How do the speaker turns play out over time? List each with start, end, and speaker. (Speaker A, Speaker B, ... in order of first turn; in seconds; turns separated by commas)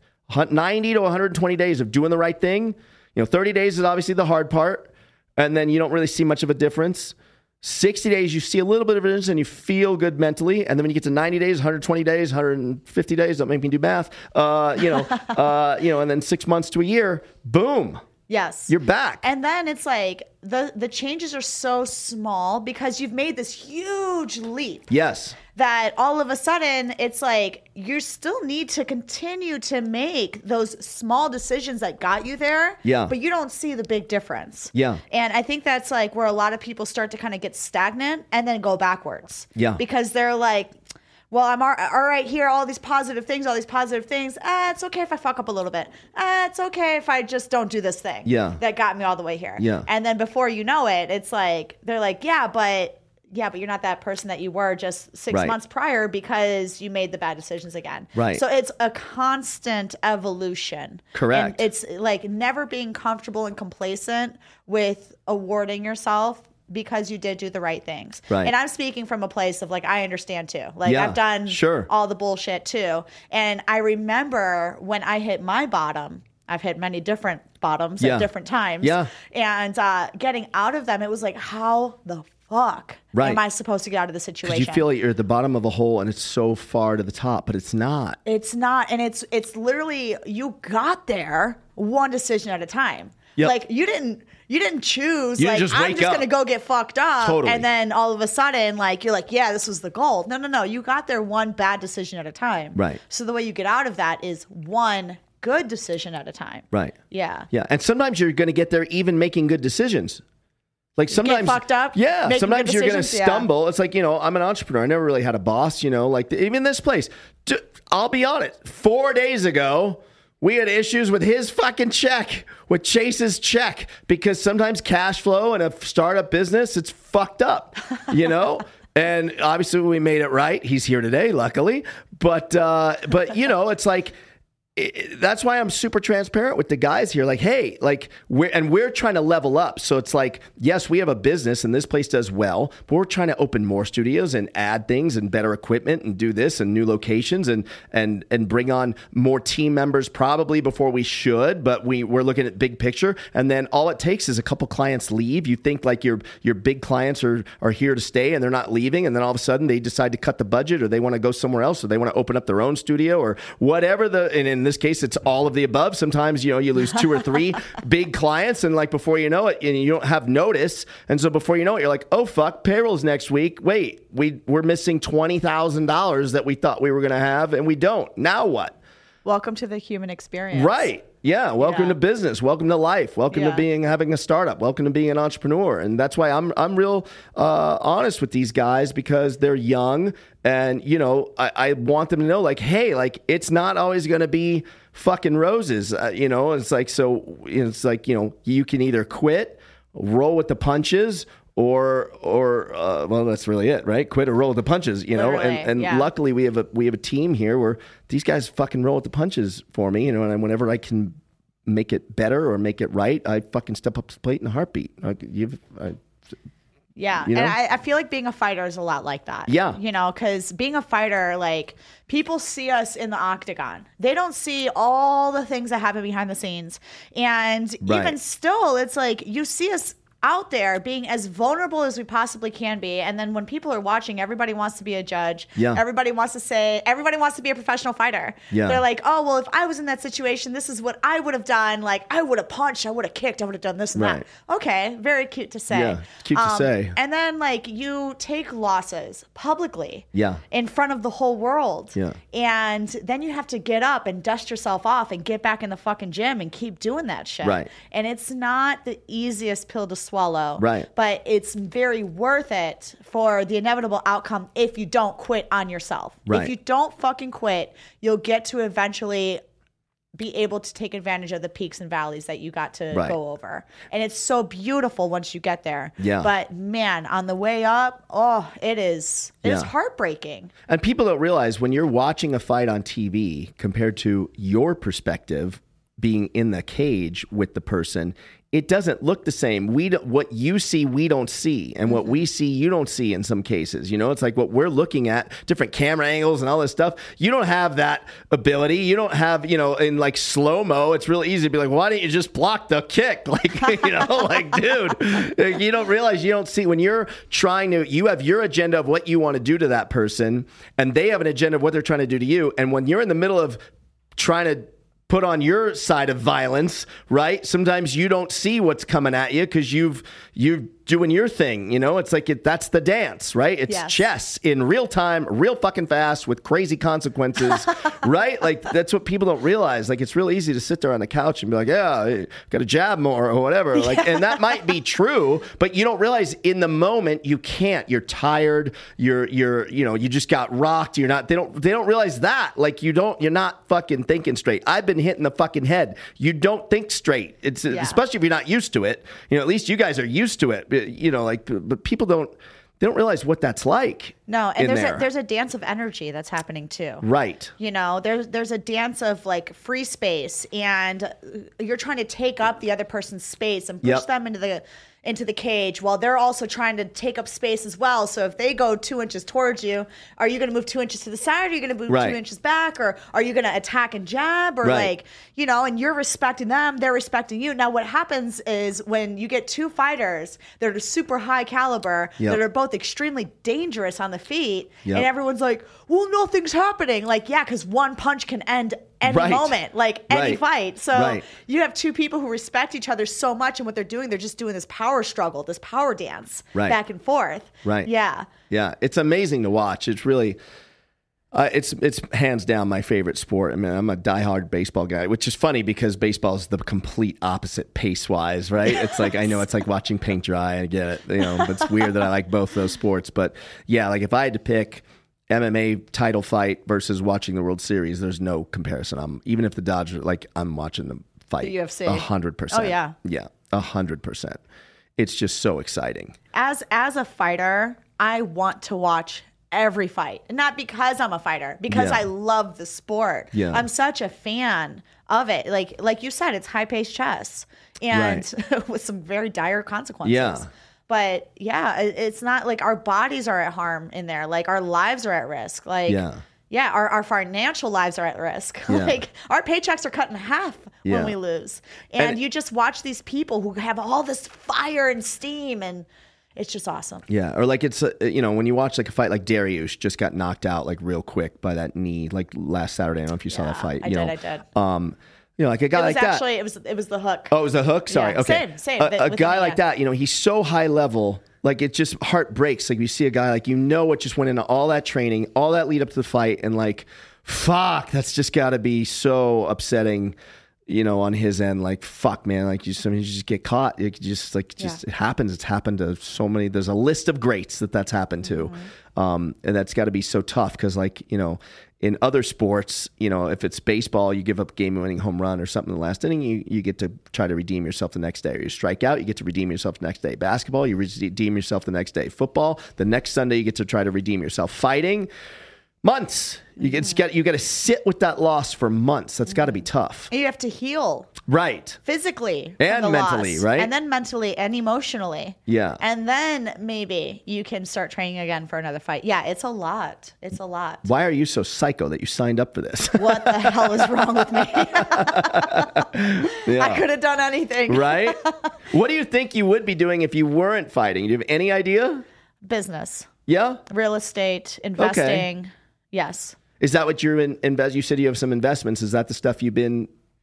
Speaker A: 0.3-18.0, Speaker B: 18.3-24.9, Speaker A: 18.7-19.2, Speaker A: 24.9-25.4, Speaker B: 25.5-40.7, Speaker A: 32.8-33.1, Speaker A: 34.7-35.0, Speaker A: 39.5-39.8, Speaker B: 41.3-84.8, Speaker A: 48.2-48.6, Speaker A: 49.6-49.9, Speaker A: 55.3-55.5, Speaker A: 58.1-58.4, Speaker A: 61.1-61.6, Speaker A: 70.8-71.9, Speaker A: 78.0-78.3, Speaker A: 78.8-79.1, Speaker A: 83.1-83.4, Speaker A: 84.4-88.2, Speaker B: 88.2-107.5, Speaker A: 95.4-96.3, Speaker A: 97.2-97.6, Speaker A: 102.8-103.0, Speaker A: 107.5-110.2, Speaker A: 111.0-134.1, Speaker B: 111.1-113.5, Speaker A: 134.8-178.8, Speaker B: 179.2-180.9, Speaker A: 180.5-216.0, Speaker B: 181.6-182.0, Speaker B: 183.3-183.6, Speaker B: 205.1-206.1, Speaker B: 216.9-269.4, Speaker A: 217.2-217.6, Speaker A: 219.5-219.8, Speaker A: 227.8-228.2, Speaker A: 235.6-235.8, Speaker A: 238.5-238.8, Speaker A: 243.9-244.2, Speaker A: 245.7-246.9, Speaker A: 250.1-250.4, Speaker A: 257.4-257.7, Speaker A: 260.6-260.9, Speaker A: 266.3-266.5, Speaker B: 270.1-280.5, Speaker A: 276.0-276.3, Speaker A: 279.4-279.7, Speaker A: 280.7-313.6, Speaker A: 314.1-355.1, Speaker B: 323.7-324.0, Speaker B: 333.8-334.6, Speaker B: 347.7-348.0, Speaker B: 354.3-357.1, Speaker A: 357.0-357.5, Speaker B: 357.6-398.3, Speaker A: 371.9-372.2, Speaker A: 374.6-374.9, Speaker A: 389.0-389.6, Speaker A: 390.1-390.4, Speaker A: 390.9-391.3, Speaker A: 397.6-397.9, Speaker A: 398.5-400.4, Speaker A: 401.3-424.4, Speaker B: 421.4-422.9, Speaker A: 425.0-426.1, Speaker B: 426.3-457.1, Speaker A: 431.7-432.1, Speaker A: 433.3-433.6, Speaker A: 437.9-438.3, Speaker A: 440.0-440.5, Speaker A: 445.9-446.2, Speaker A: 448.7-449.0, Speaker A: 450.9-451.1, Speaker A: 457.1-466.2, Speaker B: 463.3-464.4, Speaker B: 465.7-467.3, Speaker A: 467.3-480.1, Speaker B: 467.9-469.6, Speaker A: 480.7-505.1, Speaker B: 488.3-488.6, Speaker A: 505.8-510.1, Speaker B: 506.6-506.9, Speaker B: 510.1-511.1, Speaker A: 511.3-511.8, Speaker B: 511.8-520.9, Speaker A: 512.6-513.7, Speaker A: 515.5-515.8, Speaker A: 520.8-526.8, Speaker B: 523.0-528.5, Speaker A: 527.7-528.2, Speaker A: 528.7-532.0, Speaker B: 532.4-533.1, Speaker A: 533.3-533.6, Speaker B: 533.7-536.4, Speaker A: 534.8-535.3, Speaker A: 536.6-539.9